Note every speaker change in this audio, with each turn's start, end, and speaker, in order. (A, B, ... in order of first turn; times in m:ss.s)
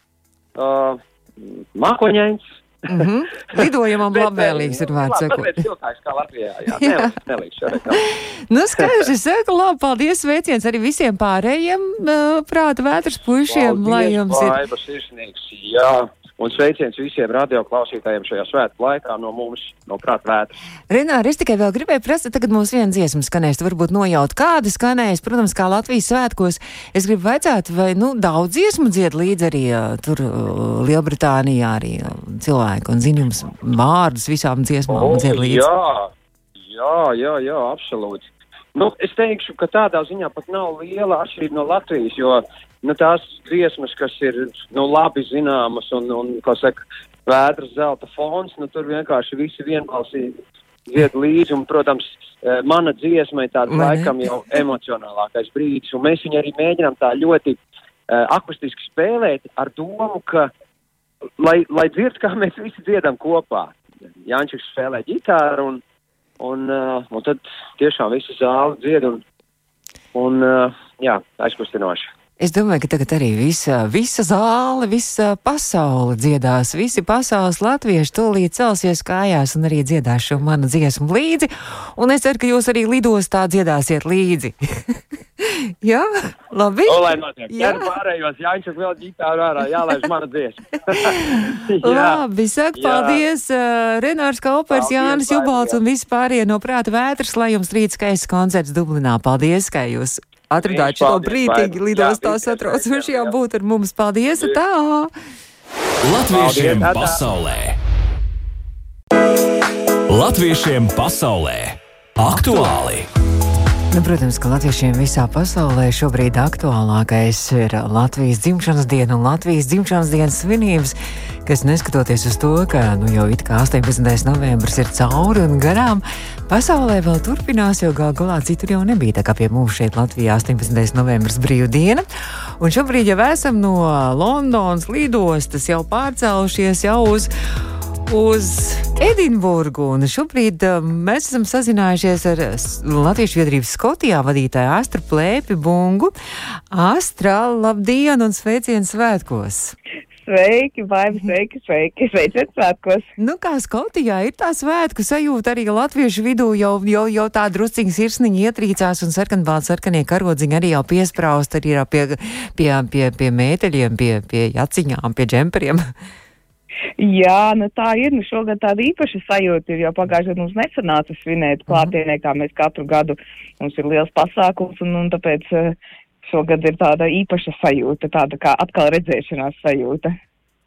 0:00.6-0:08.1 A
0:02.9-0:05.6 B
0:06.7-0:07.1 B
0:07.9-0:14.6 B
0:13.5-0:20.6 A
0:20.9-0:35.6 B
0:34.9-1:00.5 A
0:53.7-0:54.1 B
1:01.4-1:05.8 A
1:06.4-1:09.2 A
1:10.1-1:12.1 A
1:12.4-1:27.9 B
1:26.8-1:32.2 A
1:31.0-1:45.1 B
1:32.8-1:33.2 A
1:34.7-1:35.8 A
1:40.6-1:43.4 A
1:46.0-1:47.8 C
1:46.3-1:47.2 A
1:50.1-1:53.1 C
1:53.9-2:12.0 B
2:12.6-2:17.3 B
2:18.1-2:29.8 B
2:30.2-2:33.1 D
2:33.2-2:45.9 B
2:47.0-3:00.1 D